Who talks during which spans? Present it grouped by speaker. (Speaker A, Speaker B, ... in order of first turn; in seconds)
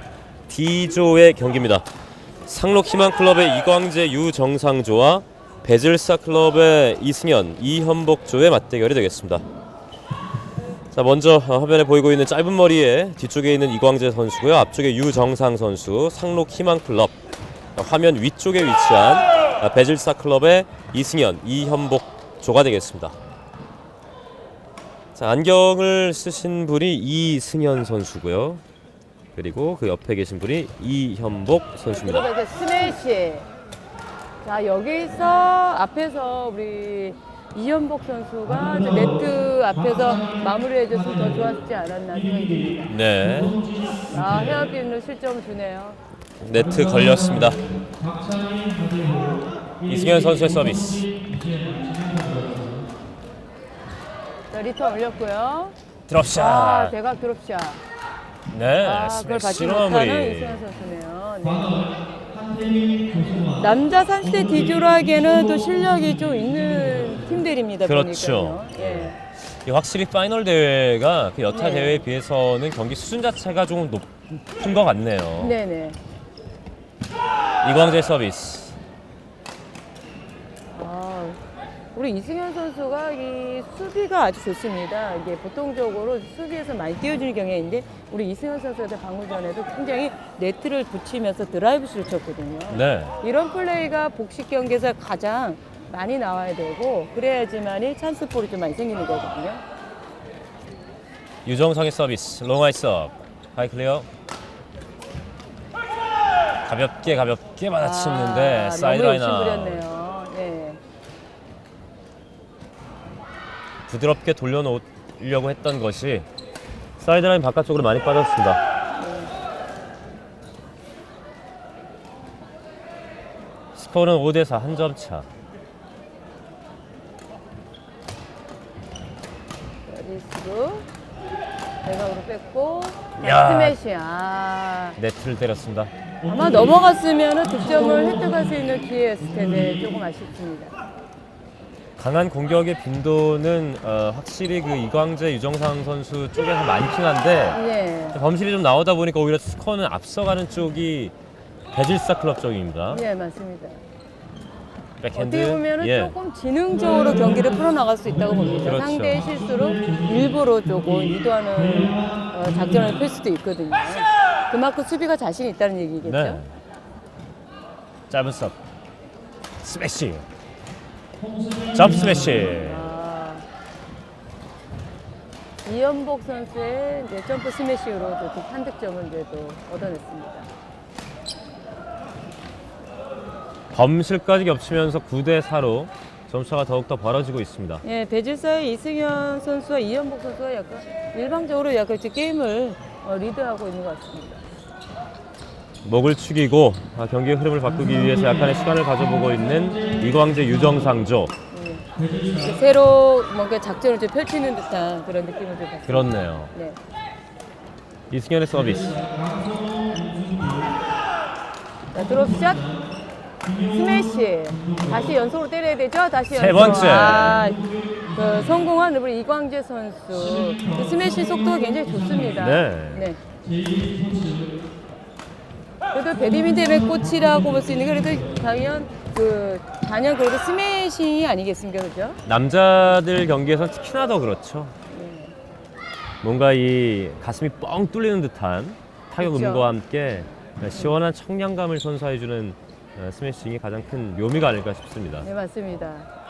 Speaker A: 0.5-1.9, 2.5-9.4, 10.9-17.1, 17.8-23.1, 25.1-28.6, 29.3-32.3, 42.9-43.6, 46.4-47.6, 49.8-51.1, 56.1-56.9, 58.5-60.6, 67.8-75.5, 77.6-78.8, 92.7-93.2, 101.4-104.1, 106.7-109.8, 113.9-116.3, 117.0-118.6, 123.7-125.2, 133.2-133.8, 135.0-135.9, 142.0-147.6, 148.1-151.1, 151.7-153.0, 155.0-156.1, 158.6-159.2, 166.0-166.5, 168.1-168.6, 169.6-170.2, 171.7-172.9, 183.7-187.8, 195.8-201.3, 205.9-206.5, 208.1-209.0, 216.3-217.4, 222.3-223.1, 232.2-234.7, 236.2-245.3
Speaker B: 31.9-33.5, 34.4-42.8, 44.1-46.0, 54.5-55.7, 56.3-57.8, 58.8-61.9, 63.5-69.2, 71.5-72.0, 75.4-76.0, 80.7-81.4, 81.9-99.6, 107.8-110.8, 119.0-119.3, 129.8-130.9, 131.8-135.0, 136.2-140.8, 147.5-148.2, 152.9-153.8, 155.1-166.4, 172.4-173.4, 175.6-180.5, 187.8-194.4, 201.5-206.8, 211.9-212.7, 213.5-223.2, 225.9-232.2, 234.9-235.3, 239.2-239.7, 245.2-246.1